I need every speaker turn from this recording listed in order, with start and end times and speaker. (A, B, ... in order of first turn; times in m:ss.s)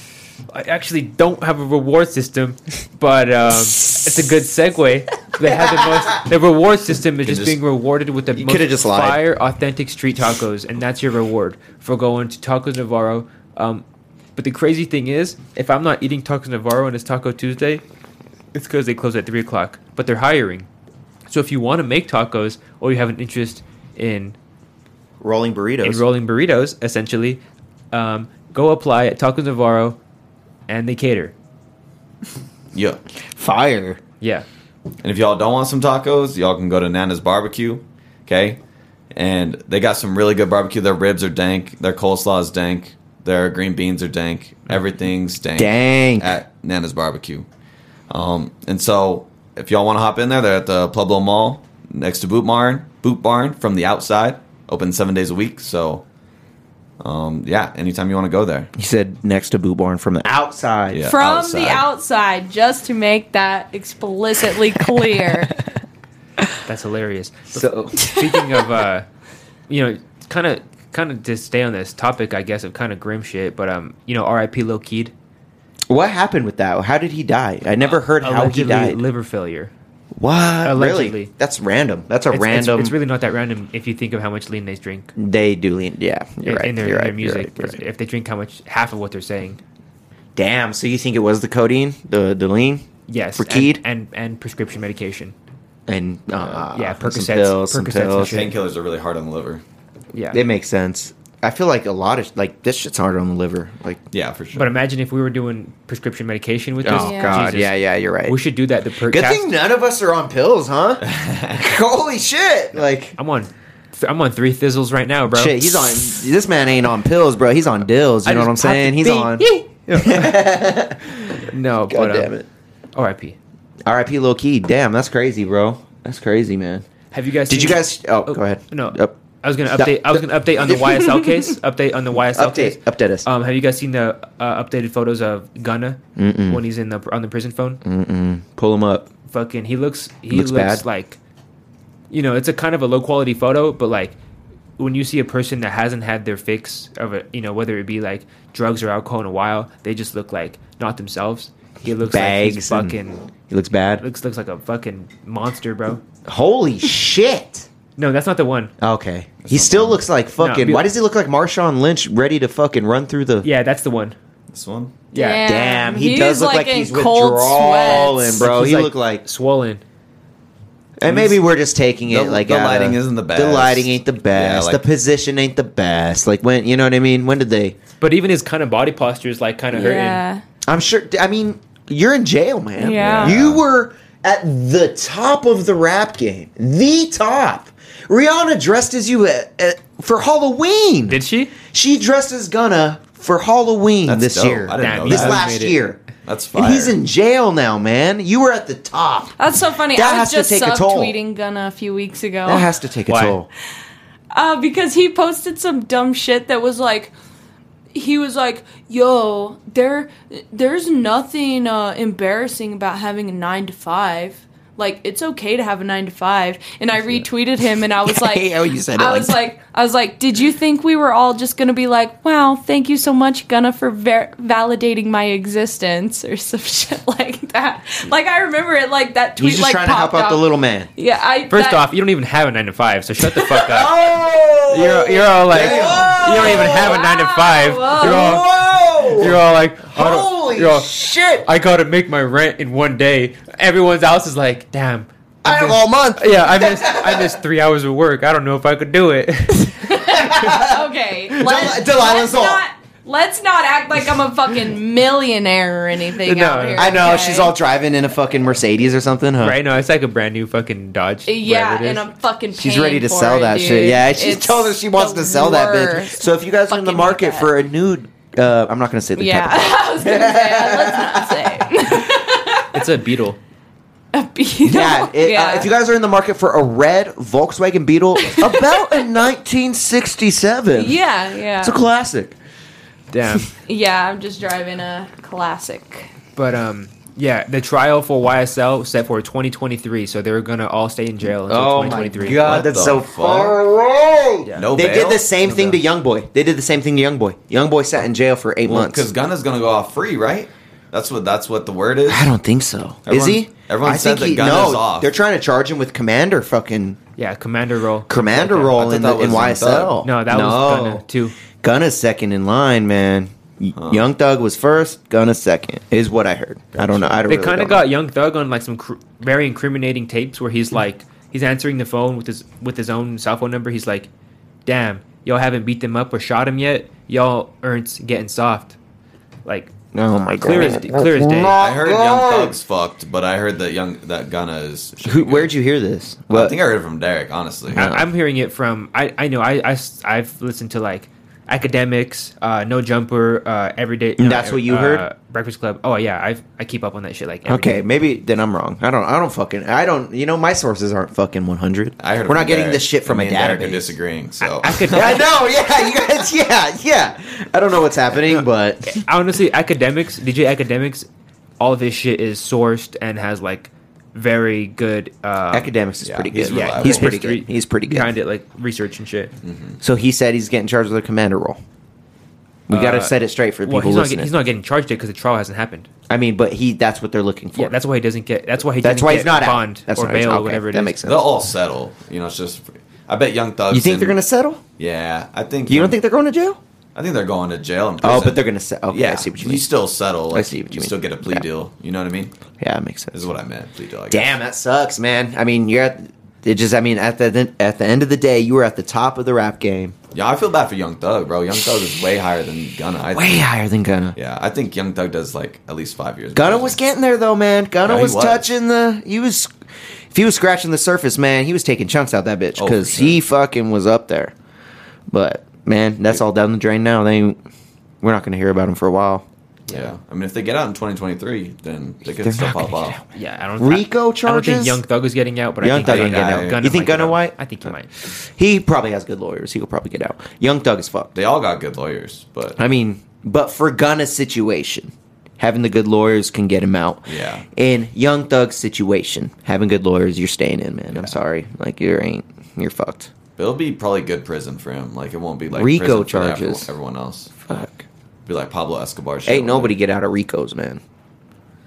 0:00.5-0:13.8 A
0:05.5-0:06.0 B
0:07.2-0:07.6 C
0:08.3-0:09.2 B
0:14.4-0:17.8 A
0:18.5-0:20.7 A
0:21.3-0:24.4 A
0:25.2-0:26.0 B
0:25.8-0:27.4 A
0:27.9-0:30.0 A
0:30.7-0:31.3 A
0:32.7-0:33.0 C
0:33.3-0:34.0 B
0:35.0-0:38.6 C
0:39.1-0:47.5 C
0:45.6-0:46.4 B
0:48.1-0:56.0 C
0:57.0-0:58.7 C
0:58.8-1:01.1 B
1:00.9-1:01.8 C
1:01.1-1:05.6 D
1:06.6-1:09.1 A
1:07.5-1:08.0 B
1:09.7-1:15.1 A
1:15.9-1:19.0 B
1:17.8-1:19.7 A
1:20.2-1:22.9 B
1:20.6-1:21.3 A
1:22.3-1:25.1 A
1:25.2-1:27.8 B
1:26.4-1:29.6 A
1:30.4-1:33.8 B
1:33.1-1:35.3 A
1:35.9-1:38.4 B
1:36.4-1:38.5 A
1:38.2-1:39.6 C
1:40.1-1:40.4 A
1:40.3-1:44.0 B
1:44.1-1:44.7 C
1:44.5-1:47.7 A
1:46.8-1:48.4 B
1:46.9-1:47.4 D
1:48.2-1:49.4 A
1:49.1-1:51.0 B
1:51.0-1:51.6 C
1:51.5-1:53.2 B
1:53.2-1:56.2 A
1:55.3-2:02.4 B
1:58.2-2:00.4 A
2:01.2-2:02.3 A
2:02.9-2:03.4 A
2:03.8-2:06.8 B
2:07.1-2:17.8 A
2:07.5-2:11.2 B
2:12.2-2:13.2 B
2:16.2-2:16.6 B
2:17.8-2:19.1 B
2:19.3-2:21.2 A
2:20.3-2:20.8 B
2:22.1-2:24.1 A
2:24.8-2:33.3 A
2:31.8-2:33.0 B
2:33.5-2:34.0 B
2:34.0-2:36.0 A
2:36.2-2:37.7 B
2:38.0-2:38.7 A
2:38.8-2:43.5 B
2:39.4-2:40.0 C
2:40.4-2:40.9 A
2:43.4-2:44.1 A
2:44.5-2:44.9 C
2:45.1-2:45.4 A
2:45.1-2:48.4 D
2:45.4-2:49.2 B
2:48.4-2:49.8 A
2:51.0-2:57.8 B
2:51.1-2:51.4 C
2:52.0-2:54.8 C
2:58.0-3:00.2 A
2:59.7-3:00.4 D
3:00.7-3:16.0 B
3:02.8-3:03.4 D
3:03.0-3:03.6 C
3:11.1-3:11.5 A
3:14.0-3:15.4 C
3:14.8-3:15.8 A
3:16.2-3:16.9 C
3:16.5-3:19.3 B
3:19.4-3:22.7 D
3:19.9-3:21.1 B
3:22.4-3:23.5 B
3:23.1-3:23.4 A
3:24.3-3:27.1 D
3:27.9-3:50.4 D
3:38.0-3:39.4 B
3:49.4-3:50.9 B
3:51.0-3:51.8 D
3:51.5-3:53.9 A
3:53.5-3:57.0 B
3:54.7-3:58.5 A
3:54.8-3:58.5 D
3:55.6-3:56.0 C
3:57.9-4:01.5 B
3:59.1-4:00.9 A
4:01.4-4:10.6 A
4:05.4-4:07.4 B
4:09.9-4:17.5 D
4:10.1-4:10.8 B
4:11.4-4:12.6 B
4:16.2-4:17.0 A
4:16.8-4:19.6 B
4:19.4-4:22.0 A
4:21.3-4:27.5 D
4:22.5-4:31.7 B
4:29.2-4:32.8 D
4:32.7-4:33.4 A
4:34.1-4:35.7 D
4:34.6-4:41.0 B
4:38.3-4:39.0 D
4:40.7-4:41.8 D
4:41.6-4:42.4 B
4:43.1-4:43.5 A
4:43.5-4:46.1 D
4:46.4-4:52.8 A
4:51.5-4:59.1 B
4:52.2-4:53.6 C
4:54.4-4:54.7 A
4:54.6-4:55.2 C
4:55.4-4:55.8 A
4:58.7-5:02.3 C
5:02.1-5:07.0 B
5:03.0-5:05.1 C
5:07.2-5:08.8 A
5:08.1-5:11.0 B
5:08.7-5:10.0 C
5:10.0-5:11.4 A
5:11.6-5:17.8 B
5:13.8-5:14.0 C
5:16.8-5:17.2 C
5:17.3-5:24.1 A
5:24.6-5:28.8 A
5:29.4-5:29.7 A
5:29.9-5:32.6 B
5:30.4-5:31.6 A
5:31.6-5:35.5 C
5:35.0-5:36.6 B
5:36.3-5:38.0 C
5:37.7-5:47.8 A
5:44.2-5:45.0 B
5:47.5-5:54.0 B
5:52.0-5:55.2 C
5:54.4-5:55.2 A
5:54.8-5:59.0 B
5:58.3-6:01.1 A
6:01.6-6:05.7 A
6:05.5-6:08.1 B
6:06.0-6:07.1 C
6:06.4-6:09.3 A
6:09.4-6:09.8 C
6:09.8-6:11.6 B
6:12.7-6:14.3 B
6:12.7-6:15.9 A
6:16.1-6:17.8 B
6:17.5-6:21.0 A
6:18.8-6:21.3 B
6:21.0-6:24.2 C
6:23.7-6:24.6 B
6:24.8-6:26.0 C
6:25.7-6:26.6 B
6:26.9-6:32.3 C
6:28.0-6:29.7 B
6:30.3-6:31.4 B
6:32.6-6:33.2 B
6:33.1-6:34.3 C
6:34.1-6:39.9 B
6:40.1-6:43.4 C
6:43.1-6:44.2 B
6:44.1-6:46.8 C
6:46.3-6:49.5 B
6:47.8-6:48.4 C
6:50.1-6:54.3 B
6:52.6-6:53.2 C
6:55.1-6:57.4 B
6:58.0-6:59.2 B
6:59.7-7:03.0 C
7:02.2-7:03.0 B
7:03.1-7:07.9 A
7:03.6-7:04.8 B
7:05.6-7:07.3 B
7:05.8-7:06.6 C
7:08.4-7:11.2 B
7:11.2-7:12.6 C
7:12.6-7:23.1 B
7:17.1-7:17.4 C
7:23.4-7:27.3 C
7:25.5-7:26.7 B
7:27.4-7:27.8 B
7:28.2-7:29.7 C
7:29.2-7:30.8 B